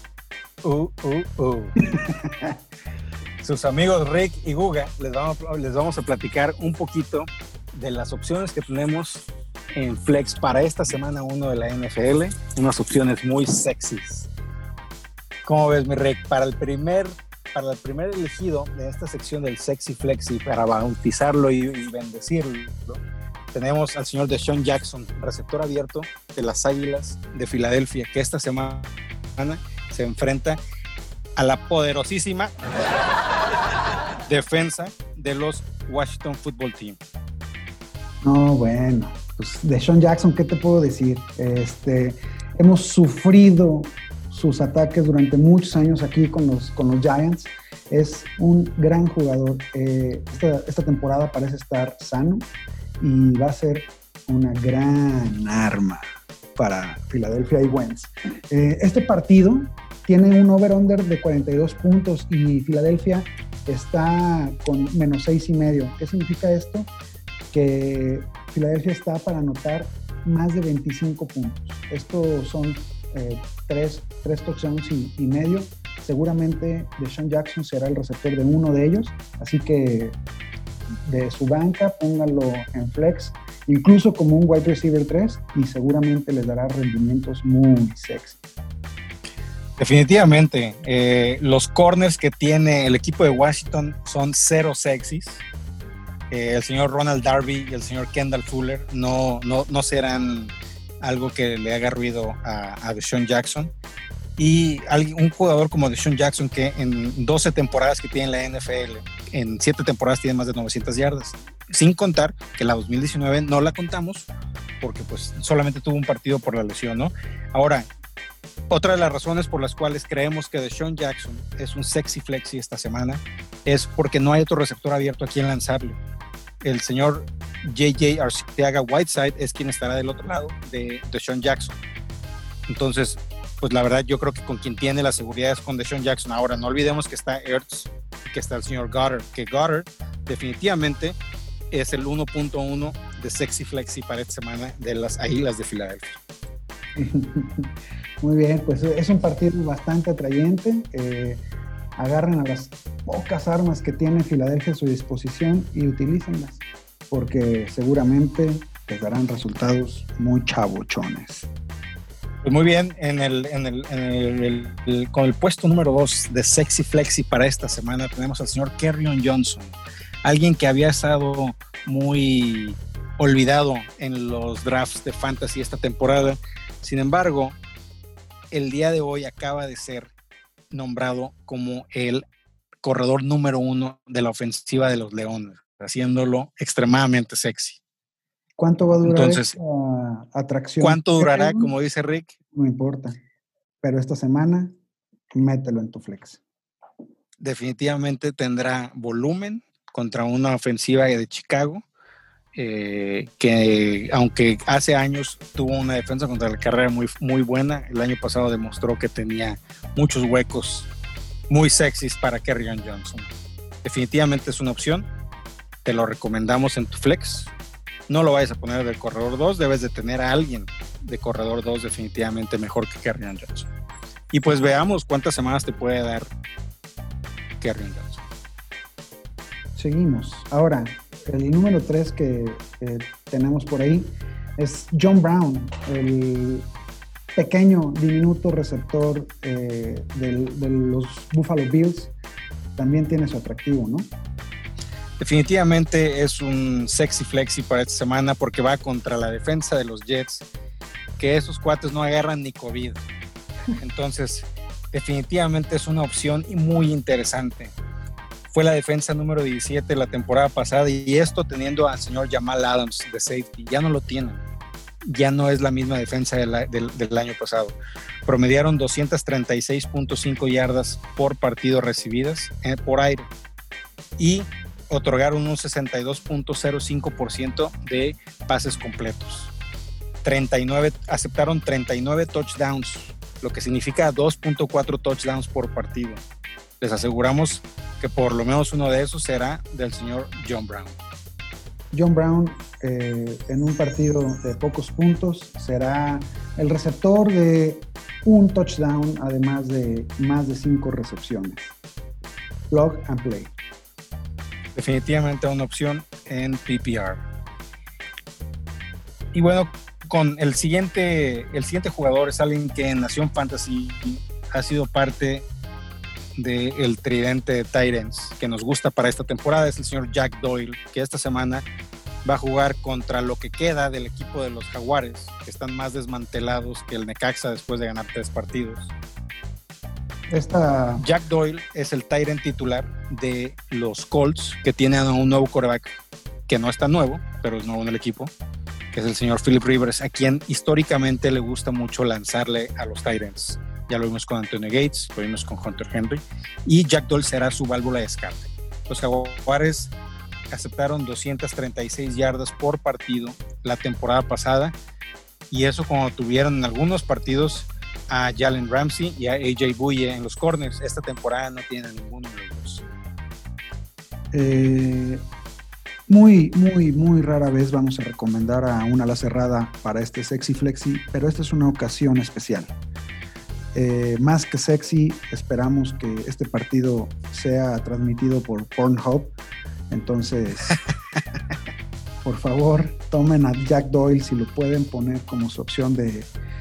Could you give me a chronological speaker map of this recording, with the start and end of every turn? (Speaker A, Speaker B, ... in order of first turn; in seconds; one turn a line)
Speaker A: 0.6-1.7
Speaker B: 2.1-2.5
Speaker A: 3.4-14.3
Speaker A: 15.4-23.0
Speaker A: 23.5-30.6
Speaker A: 31.4-32.5
Speaker A: 34.3-37.0
Speaker B: 38.2-52.5
Speaker B: 53.0-56.0
Speaker B: 56.6-66.9
Speaker B: 67.5-80.2
Speaker B: 81.1-88.4
Speaker A: 89.8-95.5
Speaker A: 96.3-103.7
Speaker A: 104.4-114.3
Speaker A: 114.8-117.9
Speaker A: 118.7-126.0
Speaker A: 126.6-131.8
Speaker A: 132.7-141.2
Speaker A: 141.7-146.2
Speaker B: 147.0-151.4
Speaker B: 152.0-161.5
Speaker A: 162.4-177.6
Speaker A: 178.5-180.1
Speaker A: 180.7-182.2
Speaker A: 182.8-187.8
Speaker B: 188.6-191.7
Speaker A: 189.1-189.5
Speaker A: 190.8-192.3
Speaker B: 192.5-193.2
Speaker B: 193.8-194.7
Speaker B: 195.3-196.4
Speaker A: 197.4-201.8
Speaker A: 202.6-210.9
Speaker A: 211.5-213.3
Speaker A: 213.8-215.1
Speaker A: 215.8-217.5
Speaker A: 218.1-223.7
Speaker A: 224.3-226.3
Speaker A: 227.6-228.2
Speaker B: 229.8-236.7
Speaker B: 237.4-242.1
Speaker B: 242.8-244.1
Speaker A: 245.2-250.5
Speaker A: 251.2-253.1
Speaker A: 253.8-257.8
Speaker A: 258.5-264.4
Speaker A: 265.1-273.3
Speaker A: 274.2-279.5
Speaker A: 280.2-286.2
Speaker A: 286.8-291.0
Speaker B: 291.9-301.8
Speaker B: 302.7-303.5
Speaker A: 304.8-307.2
Speaker A: 309.3-315.5
Speaker A: 316.4-321.7
Speaker A: 322.2-328.9
Speaker B: 330.3-331.0
Speaker A: 331.0-335.9
Speaker A: 336.5-338.3
Speaker A: 338.9-349.9
Speaker A: 350.5-354.8
Speaker A: 355.5-362.8
Speaker B: 364.3-365.2
Speaker B: 366.1-372.7
Speaker B: 373.8-379.3
Speaker B: 379.9-380.8
Speaker B: 382.2-386.3